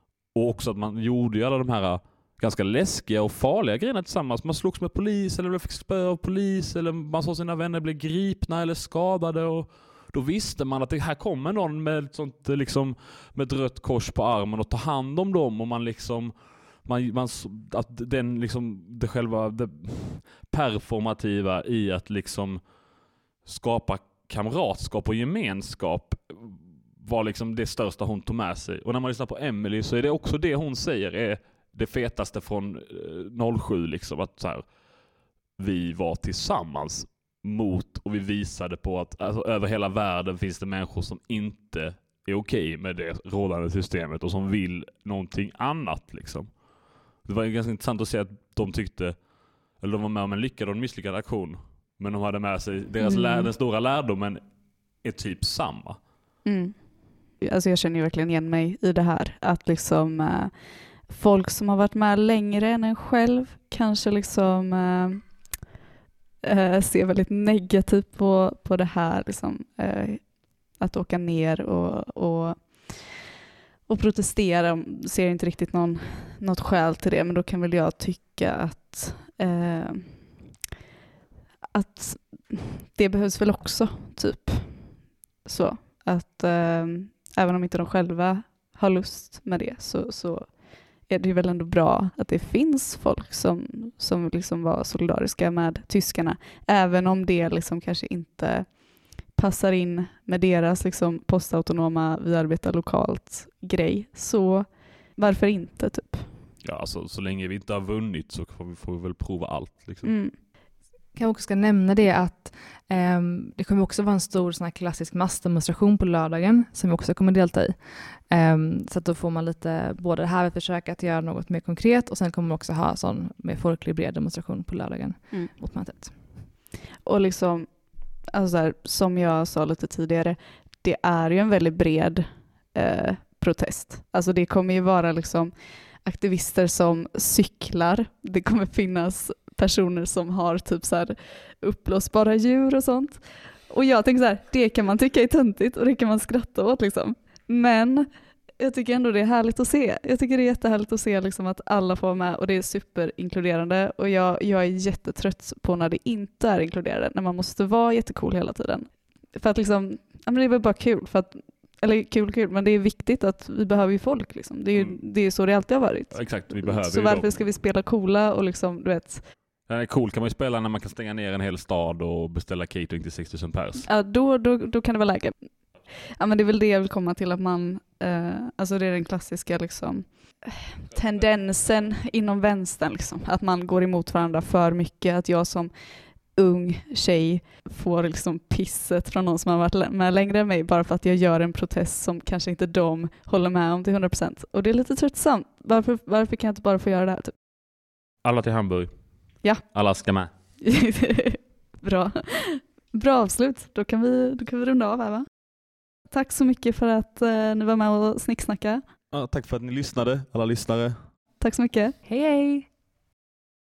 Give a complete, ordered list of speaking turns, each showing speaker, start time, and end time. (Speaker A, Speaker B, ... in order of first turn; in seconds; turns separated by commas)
Speaker A: 0.3-22.6, Speaker A: 23.4-34.7, Speaker A: 35.5-46.6, Speaker A: 47.2-54.4, Speaker B: 53.0-53.5, Speaker A: 55.0-56.0, Speaker B: 56.4-65.5, Speaker B: 66.4-73.2, Speaker B: 73.9-80.3, Speaker B: 81.7-106.3, Speaker A: 106.6-110.1, Speaker B: 110.0-110.4, Speaker C: 111.1-126.5, Speaker B: 127.0-169.2, Speaker A: 164.7-165.0, Speaker A: 166.1-167.4, Speaker A: 169.7-173.9, Speaker B: 173.8-197.3, Speaker A: 198.2-200.3, Speaker B: 200.6-208.8, Speaker A: 209.1-211.1, Speaker B: 211.4-211.9, Speaker C: 212.0-212.7